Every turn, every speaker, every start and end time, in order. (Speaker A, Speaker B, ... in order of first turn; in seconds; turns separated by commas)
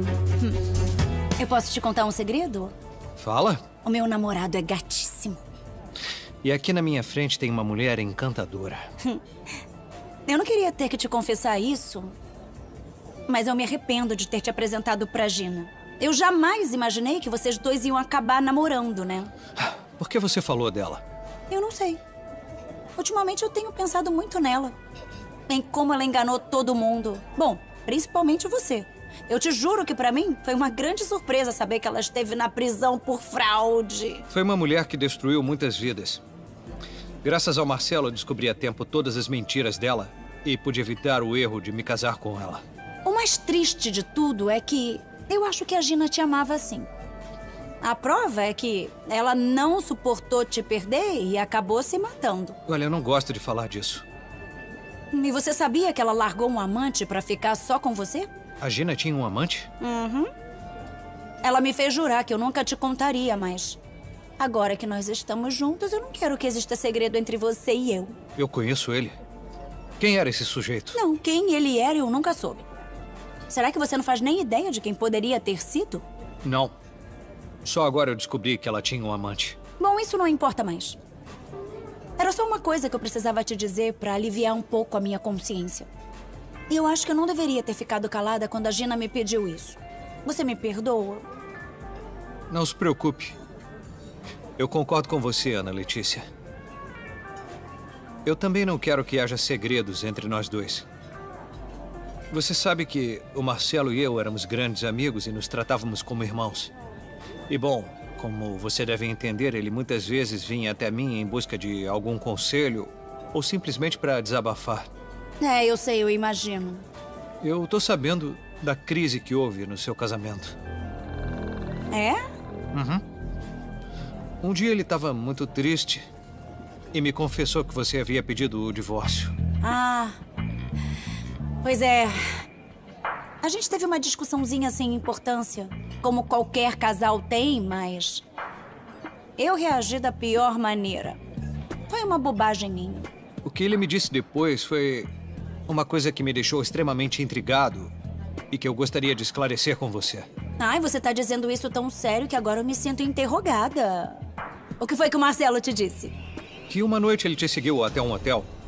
Speaker A: 1.4-2.7, Speaker B: 3.2-3.6, Speaker A: 3.8-5.4, Speaker B: 6.4-8.8, Speaker A: 10.3-12.1, Speaker A: 13.3-19.3, Speaker B: 19.6-21.0, Speaker A: 21.5-22.0, Speaker A: 23.0-24.8, Speaker A: 25.5-34.3, Speaker B: 34.3-36.2, Speaker B: 37.2-42.6, Speaker A: 43.0-46.9, Speaker A: 47.8-52.6, Speaker B: 52.7-54.0, Speaker A: 55.1-58.3, Speaker B: 58.6-59.7, Speaker A: 59.8-60.3, Speaker A: 61.4-63.8, Speaker A: 64.4-68.2, Speaker B: 68.4-69.2, Speaker B: 70.0-71.0, Speaker A: 70.9-72.7, Speaker A: 73.5-76.0, Speaker B: 76.4-76.7, Speaker B: 77.6-79.6, Speaker A: 79.8-81.0, Speaker A: 82.2-85.9, Speaker A: 86.7-91.3, Speaker B: 92.5-93.4, Speaker B: 94.6-96.3, Speaker B: 98.2-100.9, Speaker B: 102.3-106.7, Speaker B: 107.5-114.9, Speaker A: 115.4-116.8, Speaker B: 117.4-120.5, Speaker A: 121.9-122.2, Speaker B: 122.7-123.0, Speaker B: 124.4-126.1, Speaker B: 126.9-129.3, Speaker A: 129.6-130.2, Speaker A: 131.6-132.4, Speaker A: 133.4-138.2, Speaker A: 139.4-141.2, Speaker A: 141.9-143.1, Speaker B: 143.4-145.1, Speaker B: 145.7-147.9, Speaker B: 148.5-150.3, Speaker A: 150.6-154.2, Speaker A: 154.8-156.2, Speaker B: 156.7-158.5